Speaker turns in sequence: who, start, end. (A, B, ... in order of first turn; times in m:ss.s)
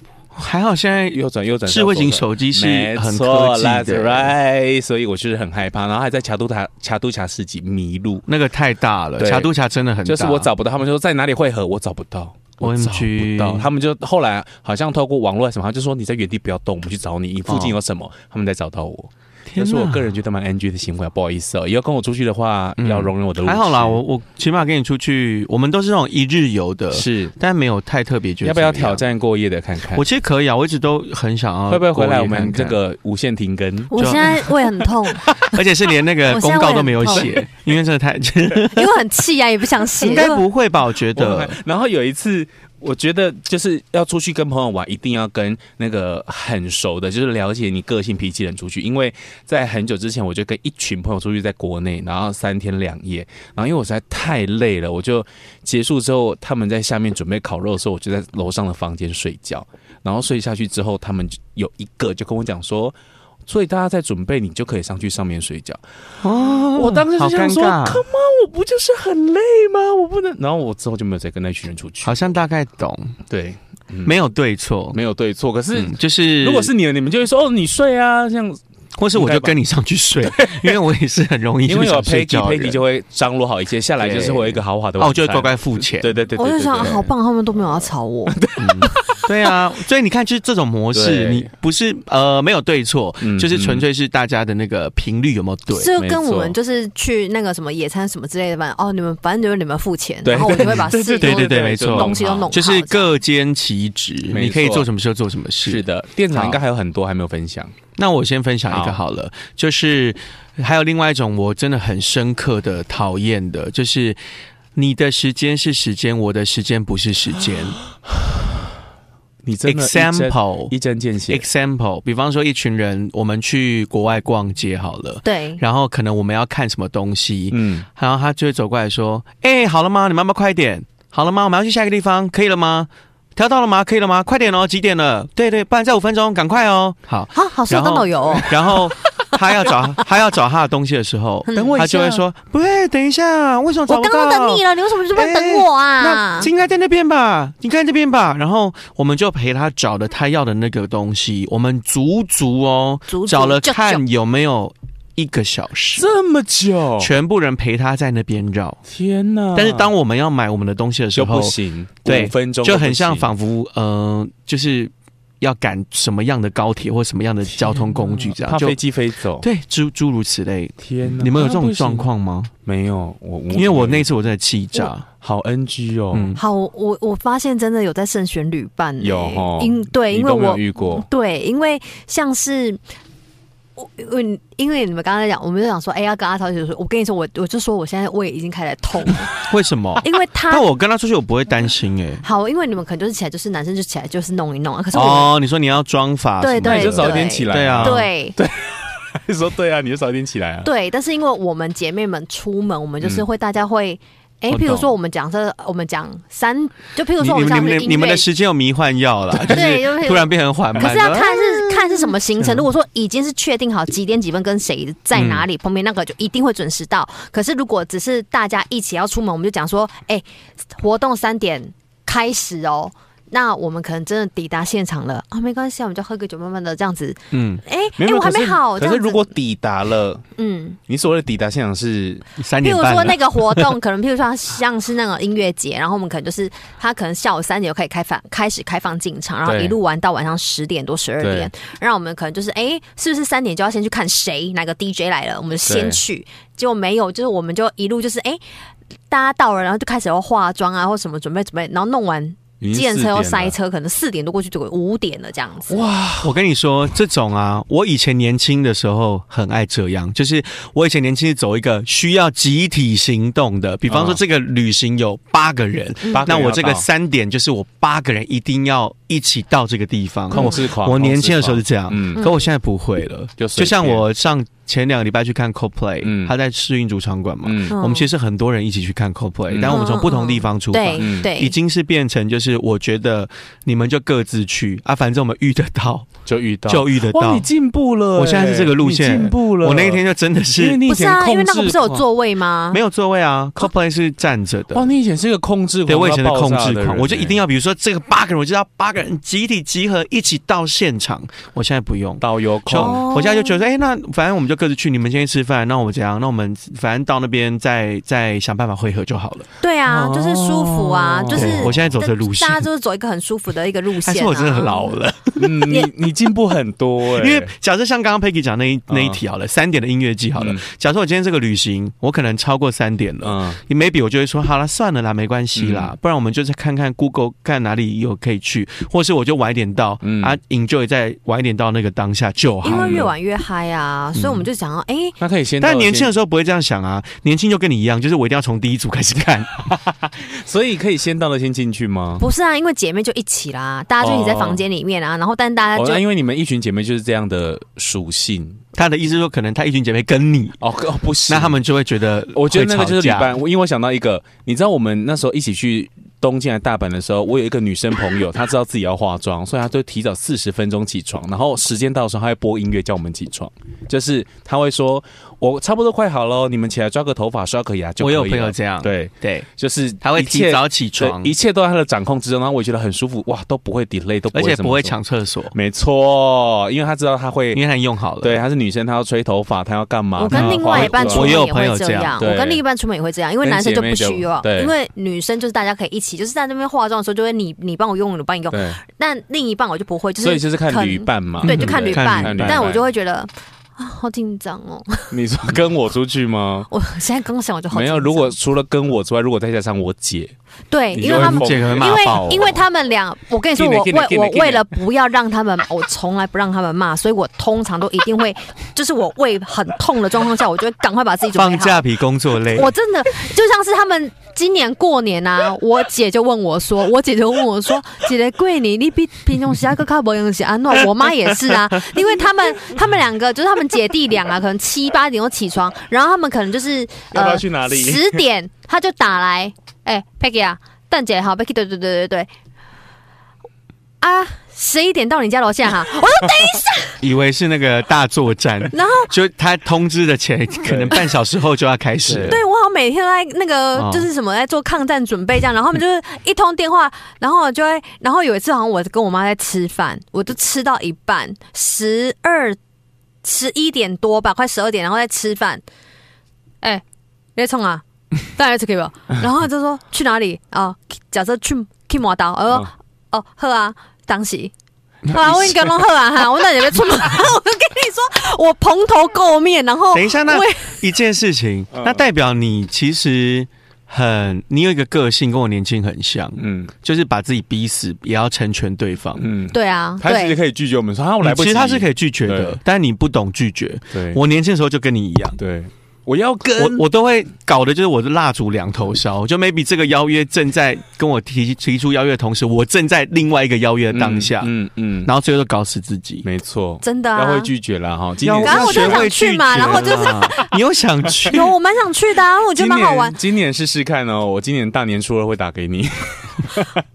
0:00.3-0:04.3 A
0:01.1-0:08.2 B
0:08.3-0:10.5 A
0:09.2-0:09.5 B
0:10.0-0:24.0 B
0:12.6-0:13.7 A
0:17.5-0:17.8 A
0:19.5-0:20.1 A
0:22.8-0:29.0 A
0:26.9-0:27.3 B
0:28.4-0:30.1 B
0:29.9-0:32.8 A
0:31.7-0:34.4 B
0:33.9-0:35.4 C
0:34.0-0:34.5 A
0:35.4-0:39.0 A
0:36.3-0:37.3 C
0:38.7-0:40.4 C
0:40.0-0:41.6 A
0:41.1-1:03.0 B
1:03.5-1:12.3 B
1:06.2-1:08.0 A
1:12.0-1:13.2 A
1:13.3-1:14.2 B
1:14.0-1:15.0 A
1:14.9-1:18.6 B
1:15.7-1:16.7 A
1:19.0-1:22.8 A
1:19.1-1:19.6 B
1:20.2-1:20.8 B
1:21.7-1:27.1 B
1:24.0-1:26.1 A
1:26.4-1:28.4 C
1:28.3-1:29.2 B
1:28.6-1:35.9 A
1:30.9-1:31.5 B
1:33.2-1:33.8 B
1:35.7-1:43.1 C
1:36.0-1:36.6 B
1:40.2-1:42.5 B
1:40.5-1:46.6 A
1:44.3-1:44.9 B
1:45.6-1:47.8 B
1:48.0-1:54.2 A
1:48.7-1:49.0 B
1:54.8-1:57.8 A
1:59.4-2:01.5 B
1:59.7-2:00.7 A
2:01.3-2:36.1 A
2:05.2-2:05.6 C
2:07.5-2:07.9 B
2:17.3-2:19.7 C
2:21.5-2:21.9 C
2:21.6-2:22.2 B
2:23.9-2:26.5 C
2:33.1-2:34.0 C
2:36.0-2:37.1 B
2:37.0-2:38.8 A
2:38.9-2:39.9 B
2:39.6-2:48.8 A
2:41.2-2:43.3 B
2:47.5-2:49.5 B
2:49.4-2:52.5 A
2:50.8-2:52.1 B
2:52.6-2:54.1 B
2:53.5-2:55.1 A
2:55.2-2:56.4 B
2:56.1-2:56.4 A
2:56.4-3:02.8 C
2:59.0-3:01.0 B
3:03.8-3:09.3 C
3:09.4-3:12.2 A
3:10.0-3:10.7 C
3:12.2-3:15.3 C
3:14.9-3:18.1 A
3:16.4-3:18.4 C
3:16.6-3:20.7 B
3:20.6-3:28.3 C
3:24.5-3:24.8 A
3:27.2-3:32.7 A
3:29.5-3:49.3 C
3:35.1-3:35.4 B
3:47.3-3:47.6 A
3:48.0-3:50.2 B
3:50.4-3:50.8 C
3:50.9-3:52.3 B
3:52.4-3:53.7 A
3:52.6-4:08.4 C
3:59.4-3:59.8 B
4:01.2-4:01.5 B
4:05.7-4:06.0 B
4:09.1-4:15.8 C
4:12.6-4:13.5 B
4:15.7-4:16.4 B
4:16.2-4:46.1 A
4:23.9-4:24.2 B
4:26.1-4:26.9 B
4:30.3-4:32.3 B
4:32.2-4:32.4 C
4:33.4-4:34.0 B
4:36.0-4:36.3 B
4:37.4-4:37.8 B
4:37.7-4:38.1 C
4:39.5-4:39.8 B
4:39.7-4:41.6 C
4:41.0-4:41.3 B
4:46.3-4:50.0 B
4:46.7-4:47.5 A
4:48.2-4:50.8 A
4:50.5-4:52.0 B
4:50.8-4:52.8 C
4:52.7-4:54.9 A
4:54.7-4:57.4 B
4:55.9-5:09.5 A
5:02.2-5:03.0 B
5:02.7-5:03.6 C
5:09.6-5:15.0 C
5:09.9-5:11.9 B
5:11.3-5:12.6 A
5:14.0-5:15.9 A
5:15.4-5:17.5 B
5:17.0-5:33.1 A
5:18.9-5:19.2 B
5:20.4-5:20.6 B
5:23.2-5:23.6 B
5:25.6-5:25.9 B
5:30.0-5:30.4 B
5:32.6-5:35.2 C
5:32.7-5:33.1 B
5:34.2-5:34.5 A
5:35.2-5:36.1 B
5:35.6-5:39.8 A
5:40.2-5:42.2 B
5:42.2-5:46.0 C
5:44.0-5:44.6 B
5:45.8-5:48.6 B
5:48.8-5:50.6 A
5:50.6-5:51.6 B
5:51.3-5:53.3 A
5:52.3-6:15.0 B
6:08.0-6:09.5 A
6:10.0-6:11.3 A
6:14.3-6:15.6 A
6:15.5-6:17.6 B
6:17.5-6:18.4 A
6:18.2-6:21.4 B
6:20.2-6:35.2 C
6:20.3-6:22.2 A
6:22.2-6:22.6 B
6:23.4-6:24.7 B
6:28.5-6:28.8 B
6:30.2-6:32.9 B
6:31.4-6:32.7 A
6:35.1-6:36.7 B
6:36.7-6:38.4 C
6:37.7-6:40.3 B
6:40.7-6:51.9 C
6:40.9-6:42.6 B
6:41.0-6:42.6 A
6:43.6-6:44.7 B
6:51.4-6:52.7 A
6:52.5-7:12.3 C
7:07.1-7:08.2 B
7:14.0-7:17.0 C
7:17.0-7:22.4 A
7:18.7-7:19.1 C
7:20.6-7:21.1 B
7:22.0-7:22.4 B
7:22.2-7:32.6 C
7:23.8-7:24.1 A
7:33.2-7:35.6 C
7:37.4-7:44.5 C
7:45.1-7:50.8 C
7:45.1-7:45.8 A
7:49.9-7:59.3 A
7:51.7-7:52.0 B
7:56.4-7:56.7 B
7:59.2-8:02.6 B
7:59.5-8:00.4 C
8:01.2-8:05.4 A
8:03.9-8:04.2 B
8:05.4-8:06.9 B
8:06.6-8:14.5 A
8:13.9-8:15.1 B
8:15.0-8:16.3 A
8:16.2-8:20.4 B
8:16.8-8:17.5 C
8:18.2-8:21.5 A
8:18.4-8:20.5 C
8:21.3-8:23.2 C
8:22.6-8:26.8 B